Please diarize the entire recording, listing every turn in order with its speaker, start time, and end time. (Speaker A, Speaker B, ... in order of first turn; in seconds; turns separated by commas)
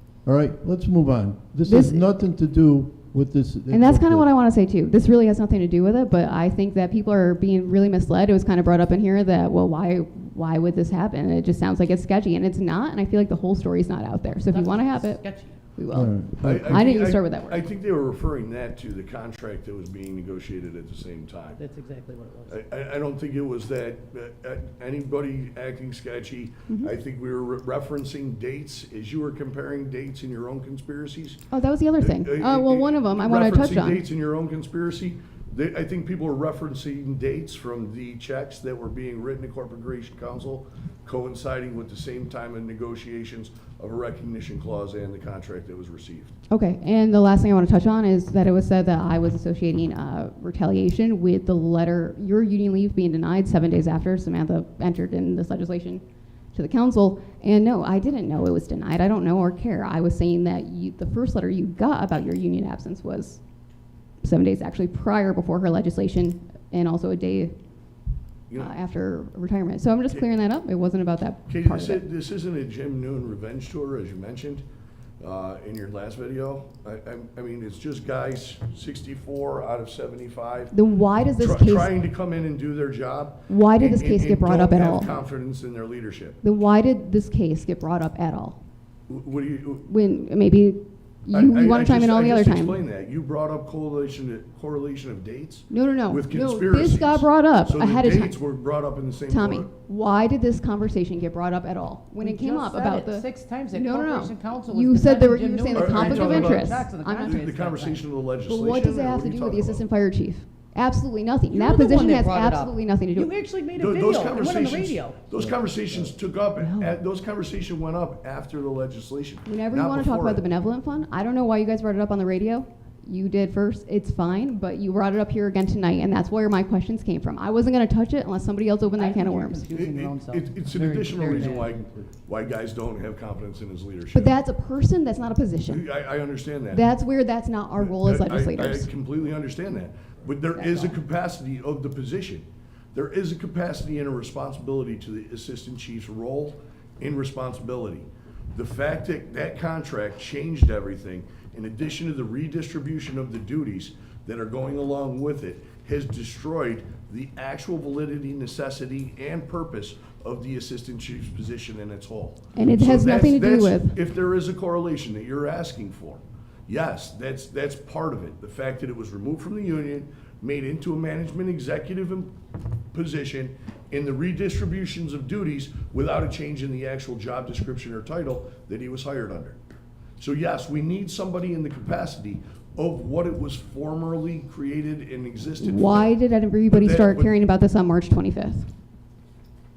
Speaker A: 0.2-4.3, Speaker B: 1.6-2.1, Speaker B: 3.7-15.2, Speaker C: 14.5-15.6, Speaker B: 15.8-17.7, Speaker A: 15.9-16.7, Speaker D: 16.4-21.6, Speaker C: 21.6-22.6, Speaker D: 22.5-31.4, Speaker B: 26.7-26.9, Speaker B: 31.5-34.0, Speaker D: 32.0-46.4, Speaker B: 46.5-56.0, Speaker B: 56.5-63.4, Speaker B: 64.2-67.5, Speaker B: 68.6-72.0, Speaker D: 71.5-74.6, Speaker D: 75.2-80.7, Speaker B: 80.7-81.9, Speaker D: 81.4-86.4, Speaker B: 83.5-85.1, Speaker B: 86.4-88.6, Speaker D: 89.1-89.8, Speaker B: 89.9-92.8, Speaker D: 91.3-99.7, Speaker B: 95.7-98.4, Speaker B: 99.3-107.5, Speaker C: 102.2-108.0, Speaker D: 105.7-109.8, Speaker B: 108.5-113.3, Speaker C: 111.5-115.9, Speaker D: 113.8-120.5, Speaker B: 116.6-116.9, Speaker B: 119.5-129.7, Speaker C: 128.9-131.9, Speaker D: 129.7-134.3, Speaker B: 134.1-135.8, Speaker D: 135.7-136.9, Speaker B: 136.7-138.9, Speaker D: 137.8-172.3, Speaker B: 140.6-141.0, Speaker B: 162.6-164.0, Speaker D: 172.9-179.6, Speaker D: 180.2-186.2, Speaker B: 185.6-188.7, Speaker D: 186.7-187.3